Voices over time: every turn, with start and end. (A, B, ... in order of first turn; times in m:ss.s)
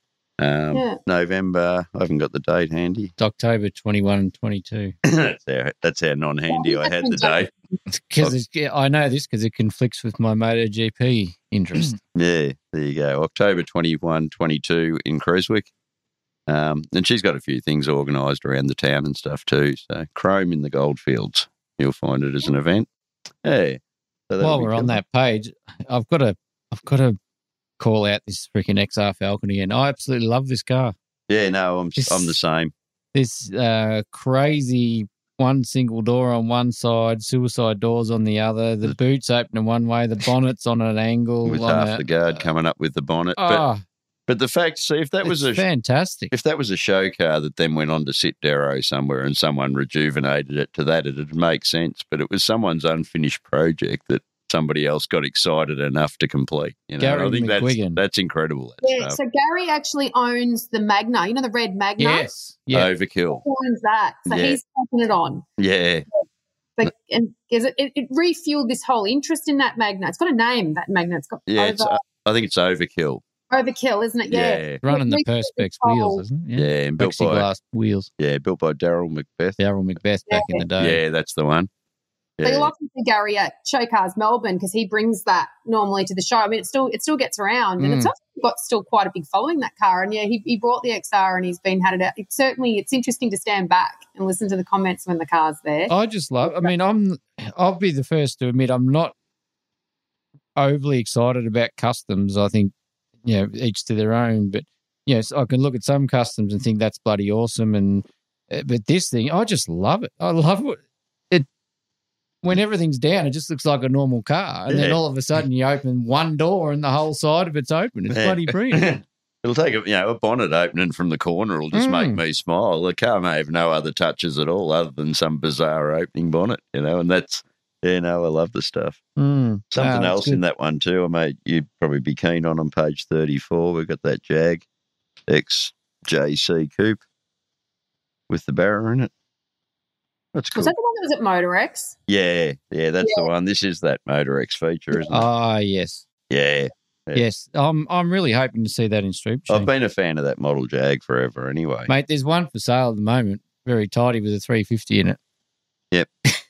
0:00.4-0:03.1 A
0:00.7-0:01.0 B
0:03.2-0:04.9 C
0:05.0-0:07.5 A
0:06.5-0:07.7 B
0:07.9-0:12.0 C
0:12.1-0:15.7 A
0:16.5-0:22.9 A
0:23.4-0:25.0 A
0:24.4-0:27.2 C
0:27.8-0:30.9 C
0:31.3-0:32.7 A
0:32.0-0:32.4 C
0:33.1-0:42.0 C
0:41.4-0:43.6 A
0:43.4-0:43.8 C
0:44.3-0:45.6 A
0:45.3-0:46.3 C
0:46.3-0:59.2 A
0:57.0-0:58.0 C
0:58.8-1:02.3 B
1:02.0-1:02.9 C
1:02.7-1:03.4 A
1:03.3-1:05.4 B
1:04.3-1:04.6 A
1:05.6-1:06.0 A
1:06.8-1:12.0 B
1:11.5-1:13.2 A
1:13.5-1:16.2 B
1:14.3-1:14.8 A
1:14.8-1:18.1 C
1:16.6-1:17.5 A
1:18.2-1:19.6 A
1:19.6-1:21.0 C
1:20.3-1:20.6 B
1:20.8-1:21.7 A
1:22.4-1:22.7 A
1:22.4-1:35.9 B
1:27.8-1:28.1 C
1:35.9-1:39.1 C
1:36.4-1:36.7 B
1:40.6-1:42.7 C
1:43.2-1:50.8 C
1:52.4-1:58.9 C
1:54.7-1:55.0 A
1:58.1-2:09.0 A
2:01.7-2:02.2 C
2:09.2-2:10.4 C
2:09.7-2:14.6 A
2:15.3-2:17.0 A
2:18.3-2:19.1 A
2:20.3-2:20.7 A
2:20.5-2:22.0 B
2:22.1-2:25.3 A
2:23.0-2:23.3 B
2:25.1-2:26.0 C
2:26.3-2:27.2 A
2:27.1-2:29.7 C
2:29.5-2:31.9 A
2:31.9-2:35.2 C